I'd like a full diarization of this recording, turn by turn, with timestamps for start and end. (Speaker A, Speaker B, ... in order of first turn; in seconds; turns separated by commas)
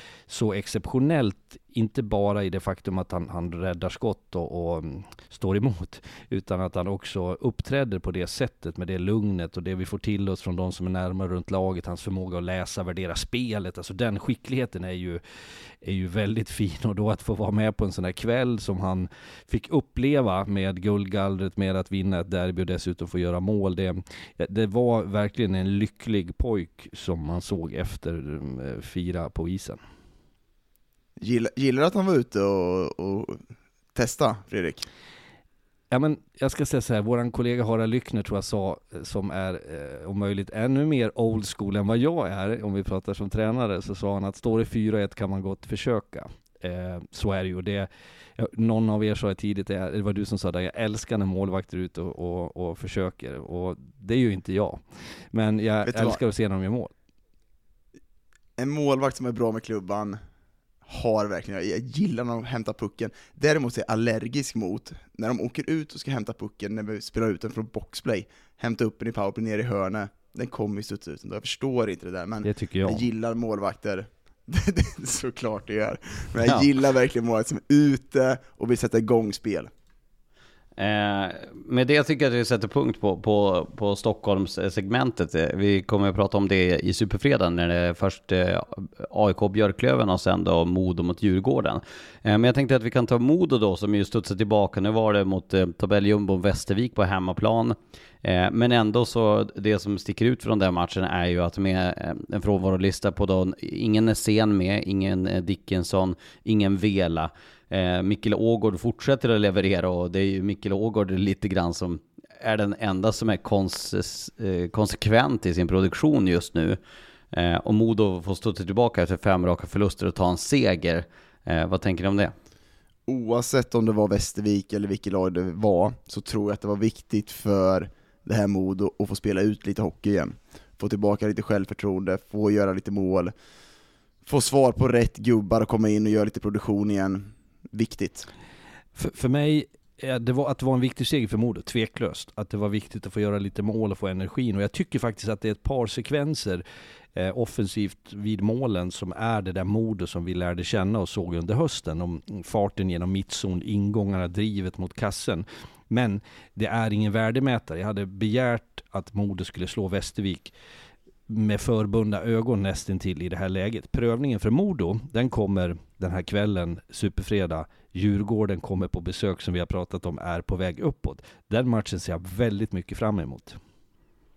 Speaker A: 0.3-15.2, Speaker A: 15.8-29.8, Speaker B: 31.2-33.4, Speaker B: 33.9-34.9, Speaker A: 35.9-56.9, Speaker B: 55.9-56.2, Speaker B: 58.6-60.2, Speaker B: 60.9-79.7, Speaker A: 72.4-73.0, Speaker C: 80.8-116.8, Speaker C: 117.3-122.3, Speaker B: 123.1-133.3, Speaker B: 134.2-138.3, Speaker A: 138.9-146.6, Speaker A: 147.1-160.5, Speaker A: 161.3-173.6